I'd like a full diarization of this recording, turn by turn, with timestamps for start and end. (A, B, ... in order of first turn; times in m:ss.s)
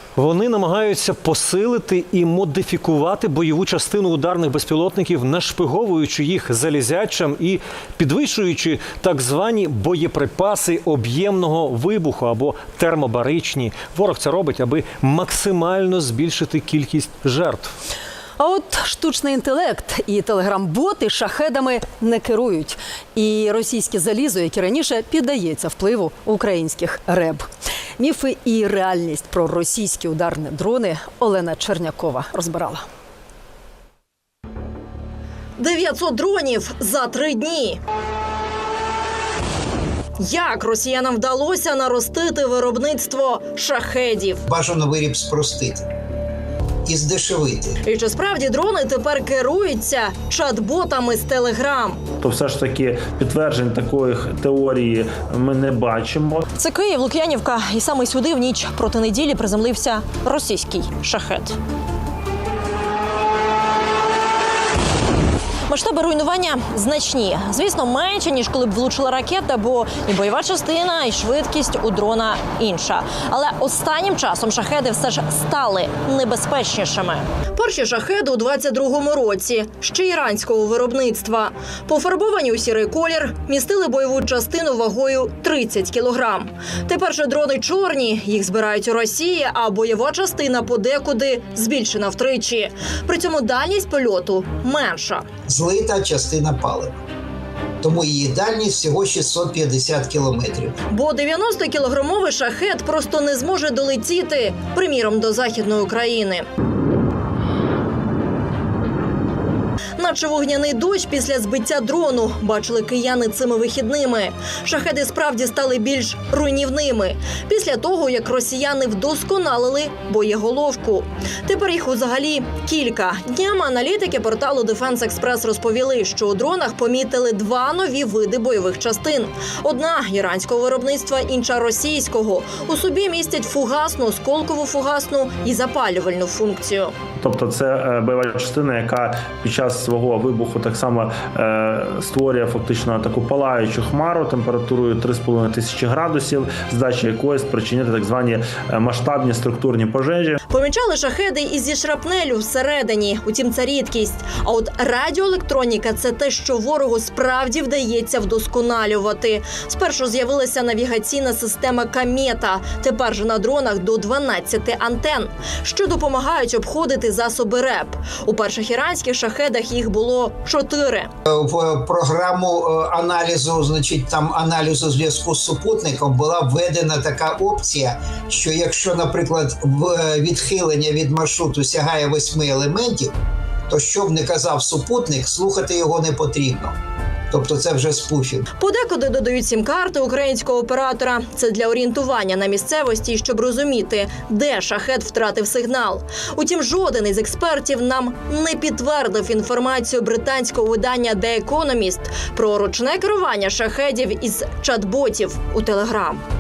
0:00.2-0:17.7 A
0:18.4-0:27.4 B
0:28.0-0:32.8 B
0:35.6-0:37.8 C
0:40.2-0:44.4 C
0:44.5-0:45.9 D
0:46.9-0:47.8 D
0:47.8-0:52.0 C
0:52.2-0:56.5 E
0:56.6-1:01.6 C
1:05.7-1:35.2 C
1:35.5-1:37.0 D
1:37.8-1:40.8 D
1:40.9-1:46.5 C
1:50.0-2:16.9 C
2:17.2-2:30.4 E
2:30.5-2:51.1 C
2:51.3-3:03.1 D
3:03.7-3:06.8 D
3:07.3-3:08.5 D
3:08.6-3:26.2 C